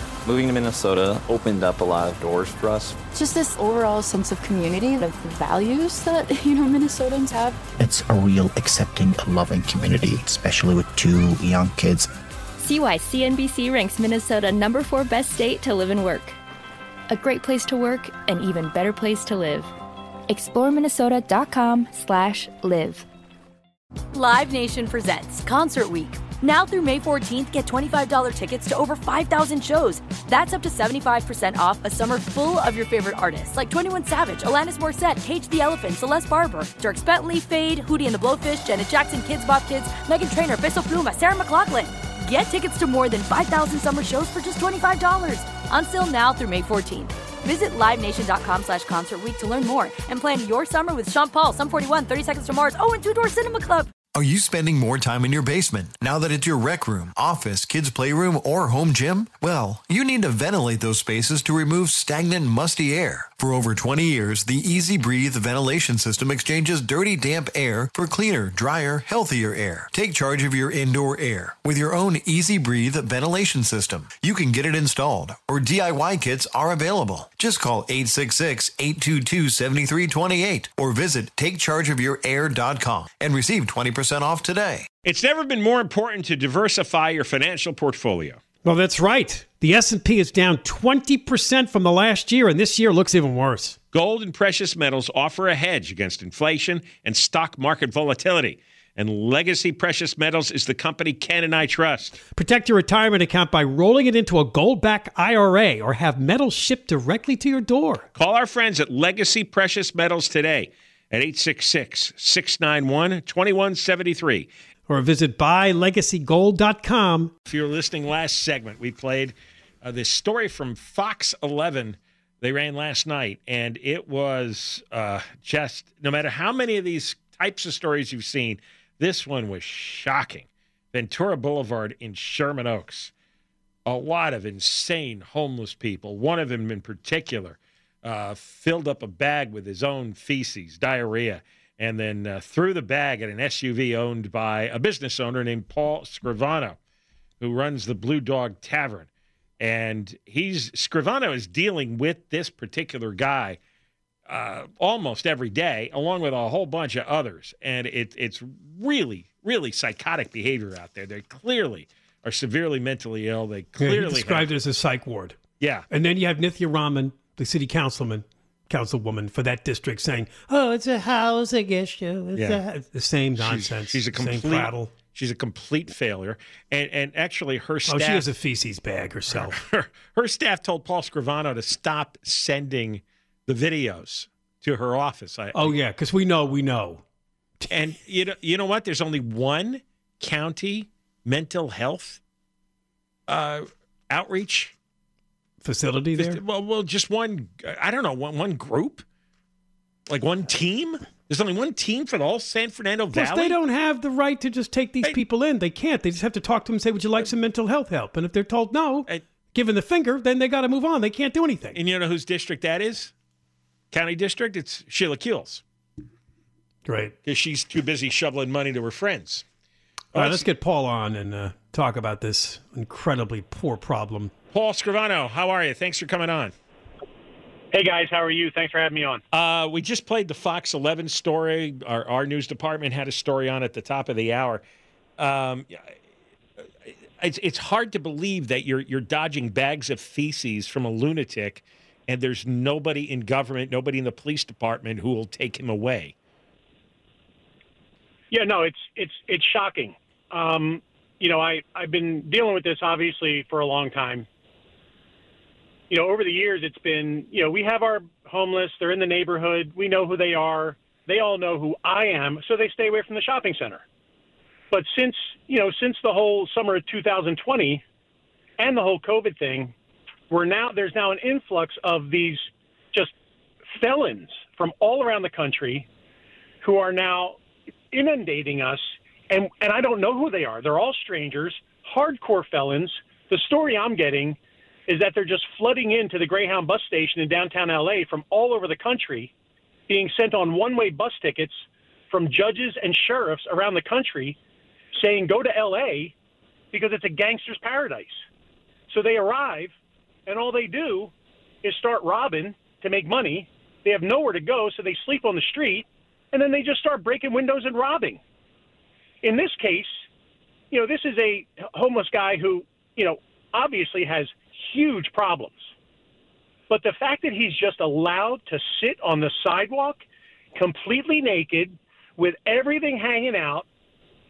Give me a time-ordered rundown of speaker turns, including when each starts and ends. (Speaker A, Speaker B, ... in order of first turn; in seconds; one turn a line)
Speaker A: 0.2-3.0
Speaker B: 3.1-7.6
Speaker C: 7.8-12.1
Speaker D: 12.6-16.4
Speaker D: 17.1-19.7
Speaker D: 20.3-23.1
Speaker E: 24.1-53.9
Speaker F: 54.1-84.9
Speaker G: 85.0-88.4
Speaker H: 88.6-93.8
Speaker G: 93.9-102.2
Speaker H: 102.3-108.1
Speaker G: 108.1-114.5
Speaker H: 114.9-117.3
Speaker G: 117.5-133.1
Speaker G: 133.8-146.8
Speaker G: 147.4-149.1
Speaker G: 149.6-153.6
Speaker G: 154.3-164.5
Speaker H: 163.8-165.4
Speaker G: 165.6-165.8
Speaker H: 165.9-174.9
Speaker G: 172.3-172.6
Speaker G: 173.4-178.3
Speaker H: 177.9-179.6
Speaker G: 179.4-185.8
Speaker H: 185.5-187.0
Speaker G: 187.7-192.2
Speaker G: 193.3-194.7
Speaker H: 195.6-196.4
Speaker G: 196.2-199.0
Speaker G: 200.1-203.6
Speaker H: 203.1-211.8
Speaker G: 211.7-213.1
Speaker G: 213.9-215.6
Speaker H: 216.8-217.1
Speaker G: 217.2-219.4
Speaker G: 220.1-220.4
Speaker H: 220.1-224.3
Speaker G: 224.5-226.5
Speaker I: 227.7-229.2
Speaker G: 229.3-234.6
Speaker G: 235.2-235.9
Speaker G: 237.2-246.1
Speaker I: 248.3-254.3
Speaker I: 255.9-263.8
Speaker I: 264.7-267.8
Speaker I: 268.6-269.7
Speaker I: 270.3-273.1
Speaker I: 273.8-275.9
Speaker I: 276.6-277.4
Speaker I: 277.9-289.3
Speaker I: 289.9-294.4
Speaker I: 294.9-296.1
Speaker I: 296.7-298.2
Speaker I: 298.9-299.7
Speaker I: 300.2-301.1
Speaker I: 301.6-308.2
Speaker I: 309.2-310.1
Speaker I: 310.7-315.7
Speaker I: 316.7-320.0
Speaker I: 320.5-323.6